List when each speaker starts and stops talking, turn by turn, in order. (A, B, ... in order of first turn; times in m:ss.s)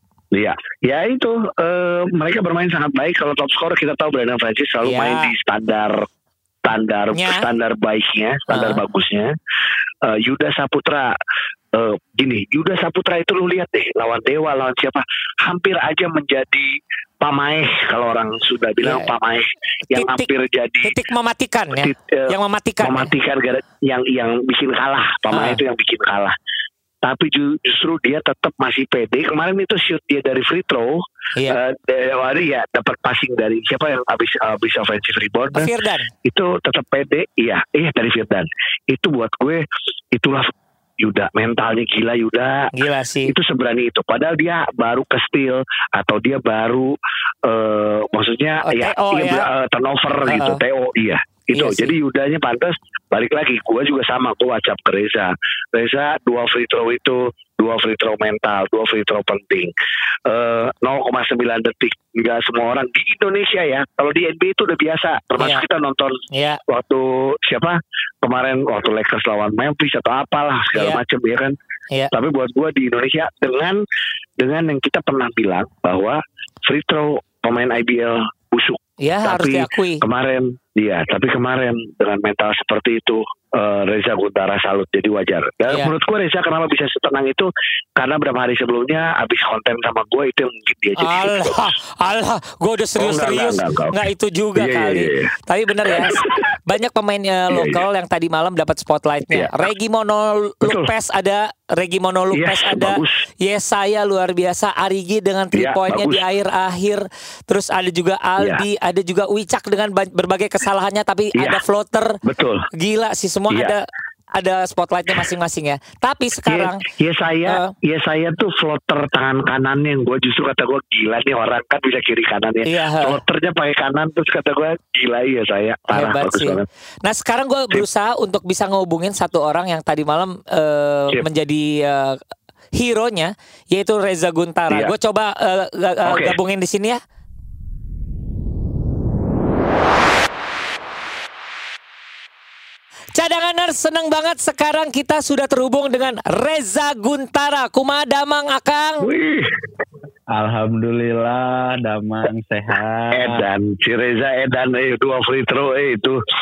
0:00.3-0:06.0 A
0:04.8-0:05.3 B
0:06.6-0:09.3 A
0:07.1-0:07.5 B
0:08.5-0:08.8 B
0:10.0-0:11.1 A
0:11.7-0:20.9 A
0:18.8-0:19.1 B
0:19.9-0:20.3 B
0:20.8-0:23.1 B
0:21.8-0:26.4 A
0:25.3-0:25.6 B
0:27.0-0:35.7 A
0:35.5-0:36.1 B
0:36.2-0:42.7 A
0:42.7-0:43.3 B
0:43.3-0:46.9 A
0:47.4-0:59.7 A
0:48.6-0:49.5 B
0:50.3-0:50.6 B
0:51.5-0:52.0 B
1:00.3-1:11.6 A
1:05.4-1:05.6 B
1:06.3-1:06.6 B
1:10.7-1:11.0 B
1:12.1-1:13.8 A
1:14.4-1:31.7 A
1:19.0-1:20.0 B
1:31.0-1:52.2 B
1:33.0-1:34.0 A
1:34.6-1:35.3 A
1:35.9-1:36.5 A
1:37.5-1:37.8 A
1:40.6-1:40.9 A
1:42.4-1:43.2 A
1:45.5-1:46.2 A
1:52.2-1:52.7 A
1:52.7-1:56.8 B
1:56.5-2:06.6 A
1:57.5-1:57.7 B
2:02.6-2:03.2 B
2:05.9-2:12.2 B
2:12.8-2:17.0 B
2:16.0-2:16.4 A
2:23.2-2:29.1 B
2:29.0-2:29.6 A
2:30.3-2:33.5 C
2:33.1-2:36.2 A